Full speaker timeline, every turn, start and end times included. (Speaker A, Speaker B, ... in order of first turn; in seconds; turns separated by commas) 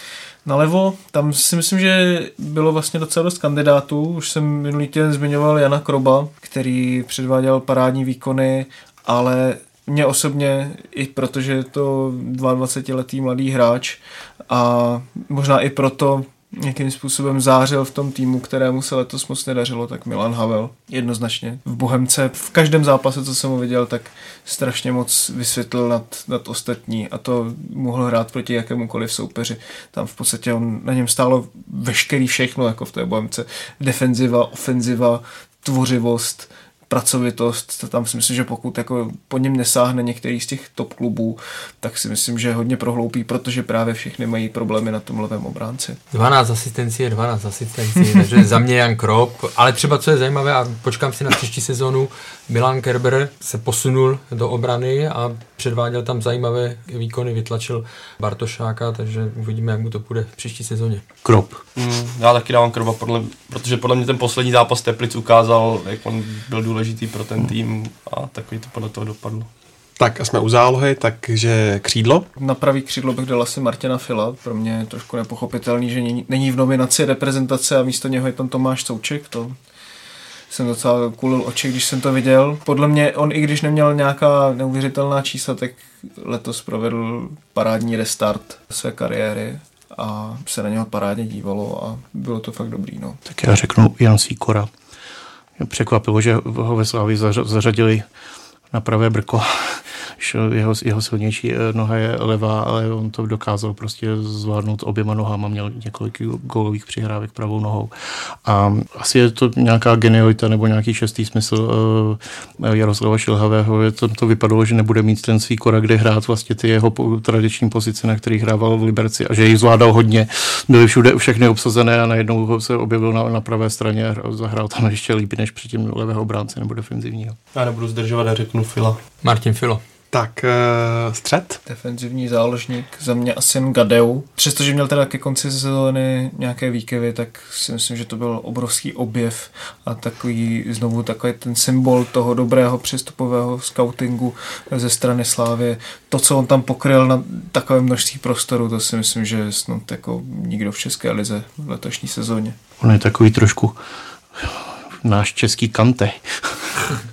Speaker A: 0.4-46.0, Speaker B: 46.1-61.0, Speaker C: 61.2-61.6, Speaker D: 61.8-69.5, Speaker E: 70.0-72.3, Speaker A: 72.3-79.5, Speaker A: 80.5-93.2, Speaker C: 93.2-94.7, Speaker C: 95.6-98.0, Speaker C: 98.7-107.9, Speaker C: 108.4-127.4, Speaker D: 127.5-129.0, Speaker B: 129.2-129.8, Speaker E: 130.1-131.6, Speaker A: 131.7-152.6, Speaker C: 152.8-153.8, Speaker C: 154.4-156.8